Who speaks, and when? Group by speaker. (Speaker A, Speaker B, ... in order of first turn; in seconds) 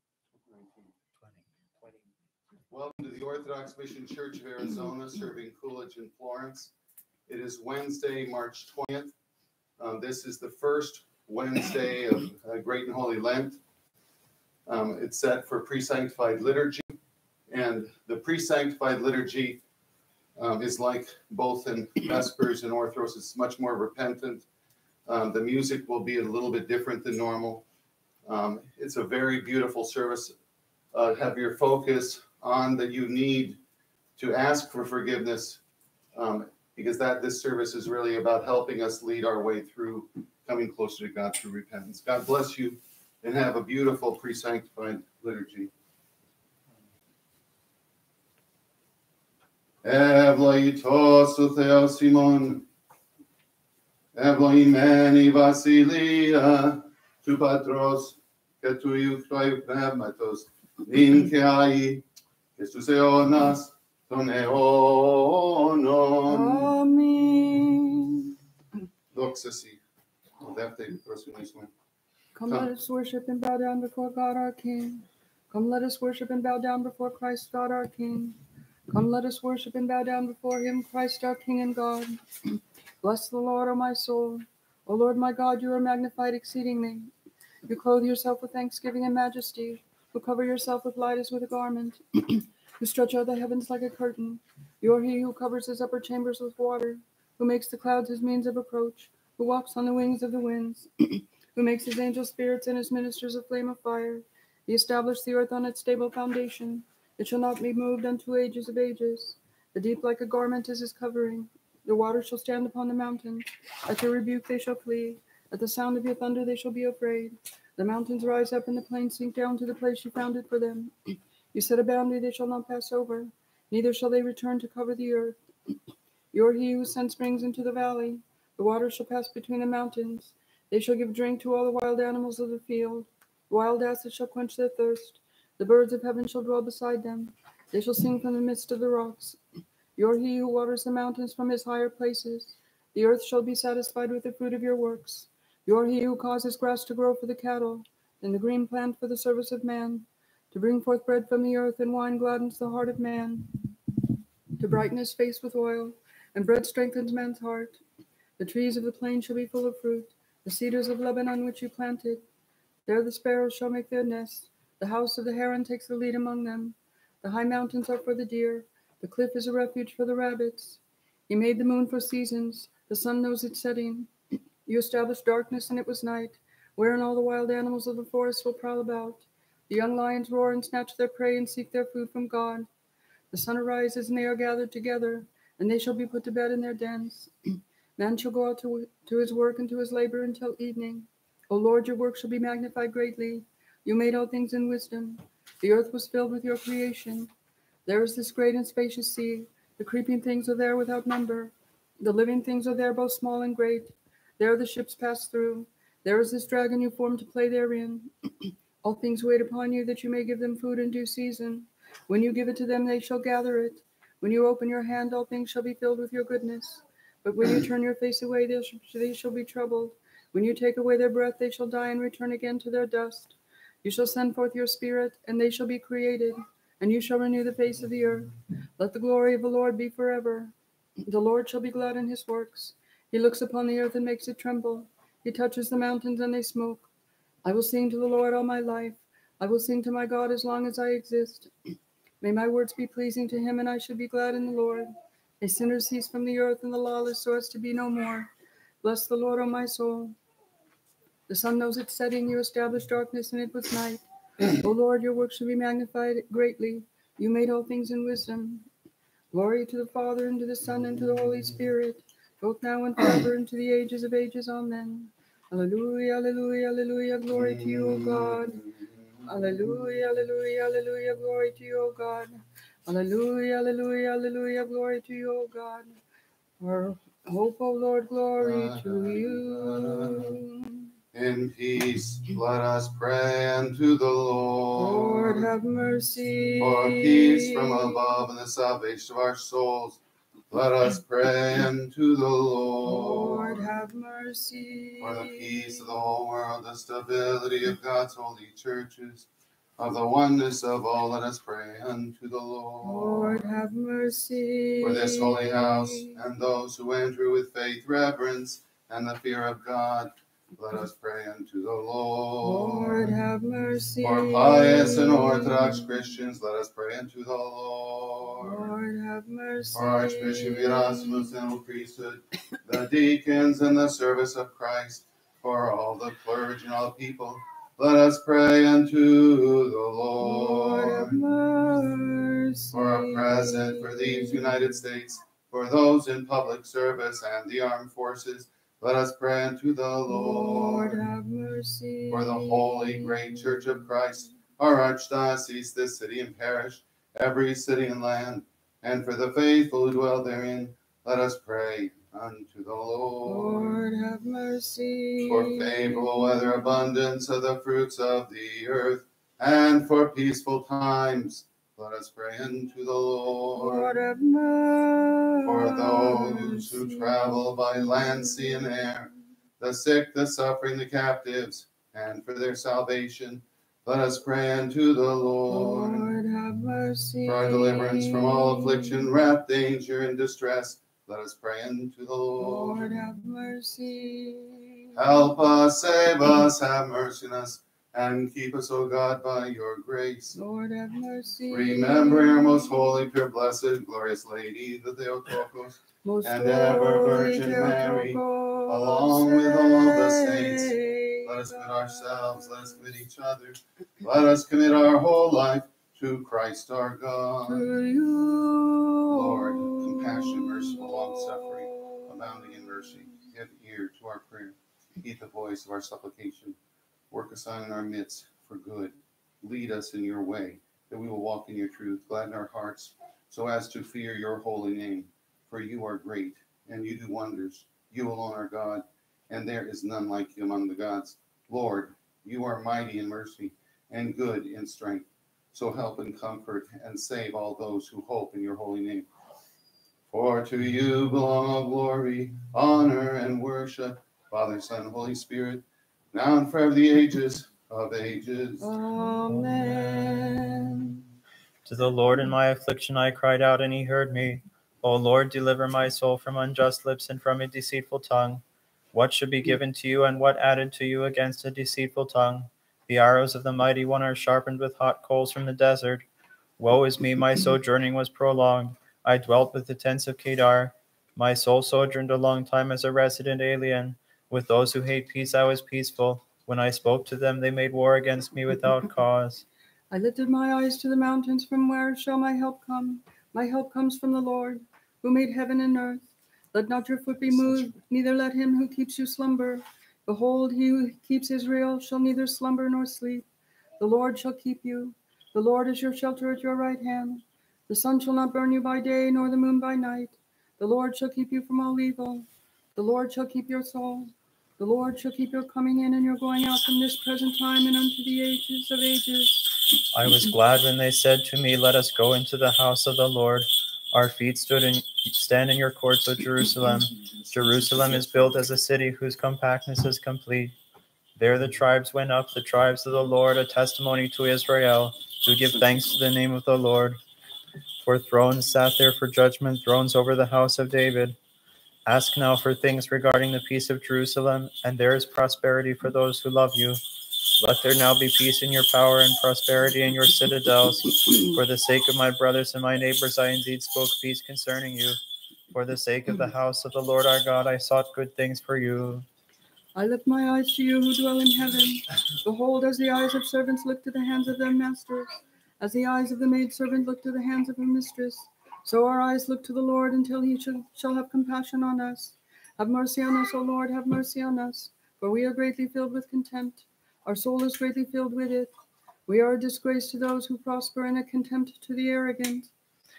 Speaker A: 0.4-0.9, 2.7-6.7, 7.3-9.1, 9.8-13.6, 14.7-17.0, 17.5-19.6, 20.4-24.4, 25.1-27.6, 28.2-30.3, 30.9-33.6, 34.2-35.6, 36.1-45.7, 49.8-52.6, 54.1-62.0, 62.6-66.7, 69.1-69.8, 70.4-71.7, 267.3-269.5, 278.4-280.4, 281.1-285.5, 286.6-293.7, 295.0-299.3, 299.8-303.4, 304.8-313.1, 314.0-318.7, 319.7-331.2, 332.7-341.0, 342.1-353.7, 355.2-363.9, 365.4-376.1, 377.2-382.9, 384.9-390.4, 391.5-407.7, 409.1-416.6, 417.1-439.1, 440.1-448.7
Speaker B: 1.2-1.9, 449.3-450.3, 451.6-466.1, 466.6-479.4, 509.9-520.5, 521.1-527.0, 527.8-531.2, 531.9-536.8, 537.4-545.0, 545.5-549.0
Speaker C: 66.2-68.3, 72.3-78.4, 78.9-82.2, 83.0-87.1, 87.7-120.9, 121.5-125.4, 126.3-139.4, 139.9-153.5, 154.6-157.8, 158.4-162.2, 162.8-174.1, 174.7-182.7, 183.3-187.3, 188.0-197.3, 197.8-208.1, 208.8-230.5, 231.0-236.9, 237.4-241.5, 242.2-244.9, 245.4-248.3, 248.8-250.2, 251.3-258.7, 259.3-268.6, 269.2-275.9, 276.6-280.9, 284.8-287.9, 292.8-295.9, 302.8-306.2, 312.4-315.9, 318.4-321.4, 330.2-334.6, 340.1-343.8, 353.2-356.1, 363.6-367.4, 368.1-368.9, 375.5-379.1, 382.4-385.0, 390.3-392.7, 396.0-402.7, 407.4-412.8, 448.6-451.0, 479.9-493.2, 493.8-509.5, 549.8-568.5, 569.1-572.5